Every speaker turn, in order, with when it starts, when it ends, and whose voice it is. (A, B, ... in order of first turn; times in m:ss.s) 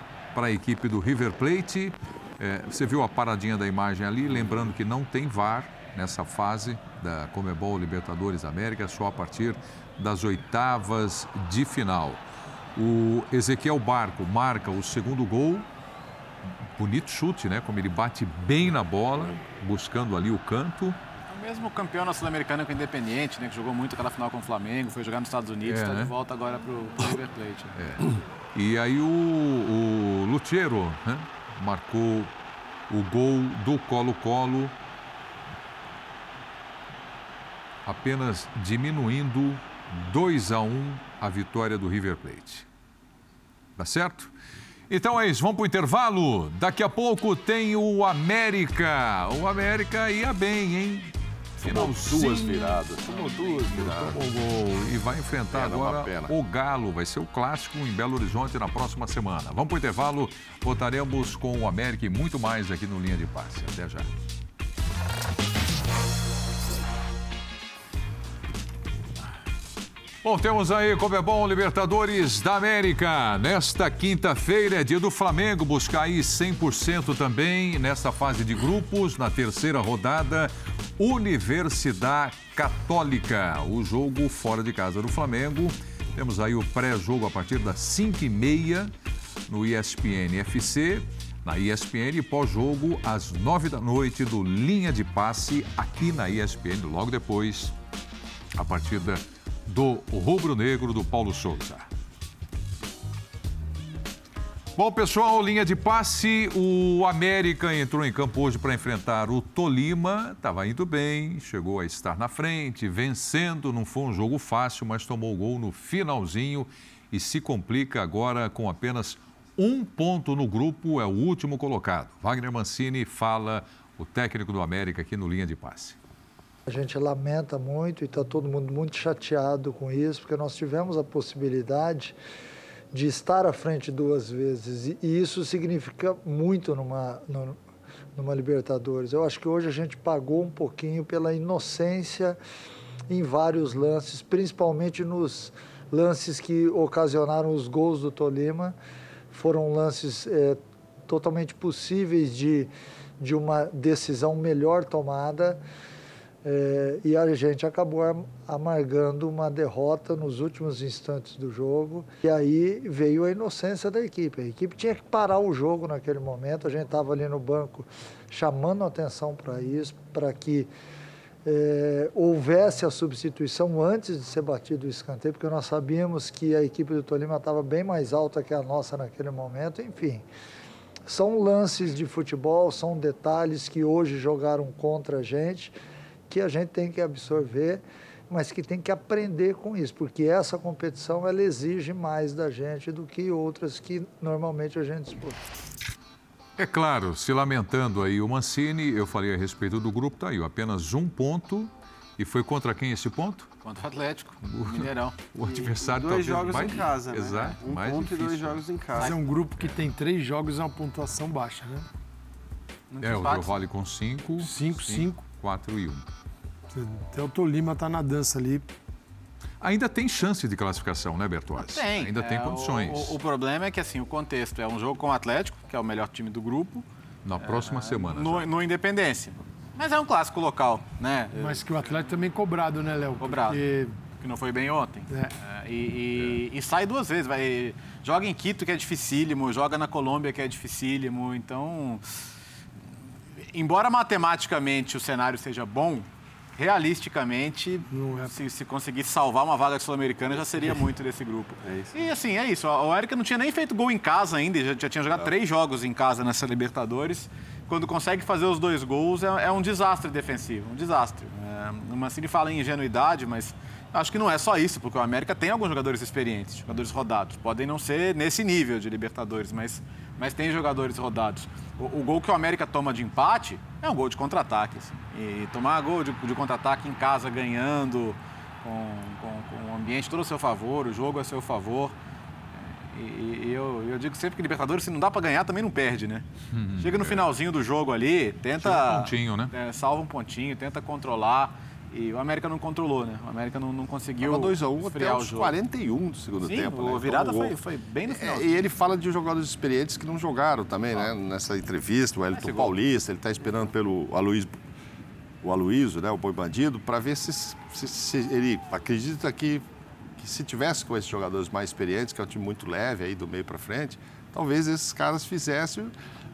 0:00.3-0:12.2 A
0:12.8-0:15.7 A
0:16.8-0:21.0 A
0:21.3-0:27.8 B
0:25.6-0:26.1 A
0:27.8-0:32.3 A
0:32.9-0:34.7 A
0:37.8-0:42.7 A
0:43.8-0:44.3 A
0:44.9-1:04.1 A
0:51.6-0:54.2 C
0:55.5-0:56.3 C
1:10.2-1:28.9 A
1:29.5-1:37.7 A
1:38.5-1:41.9 A
1:44.8-2:06.0 A
2:06.7-2:12.2 D
2:12.9-2:17.6 D
2:18.2-2:22.4 D
2:23.1-2:28.8 D
2:29.3-2:32.7 D
2:33.2-2:35.6 D
2:36.4-2:50.7 D
2:51.5-3:00.2 D
3:01.1-3:05.7 D
3:06.3-3:15.4 D
3:16.6-3:23.5 A
3:23.6-3:25.2 B
3:24.4-3:28.7 A
3:25.4-3:29.2 E
3:29.0-3:31.9 F
3:32.9-3:33.6 B
3:33.0-3:36.1 A
3:34.4-3:35.2 F
3:36.7-3:38.7 F
3:39.6-3:43.2 A
3:41.7-3:46.8 B
3:47.2-3:48.5 A
3:47.4-3:51.9 B
3:51.4-3:54.0 F
3:53.2-3:53.6 B
3:54.2-4:02.0 B
3:55.1-3:55.4 F
4:03.5-4:42.0 B
4:07.9-4:08.3 F
4:11.6-4:11.9 E
4:42.5-4:46.3 B
4:46.5-4:47.3 A
4:46.8-4:55.6 B
4:48.6-4:49.5 A
4:54.2-5:04.5 C
4:56.4-4:58.6 B
5:02.3-5:02.7 B
5:05.4-5:09.6 C
5:10.2-5:15.9 C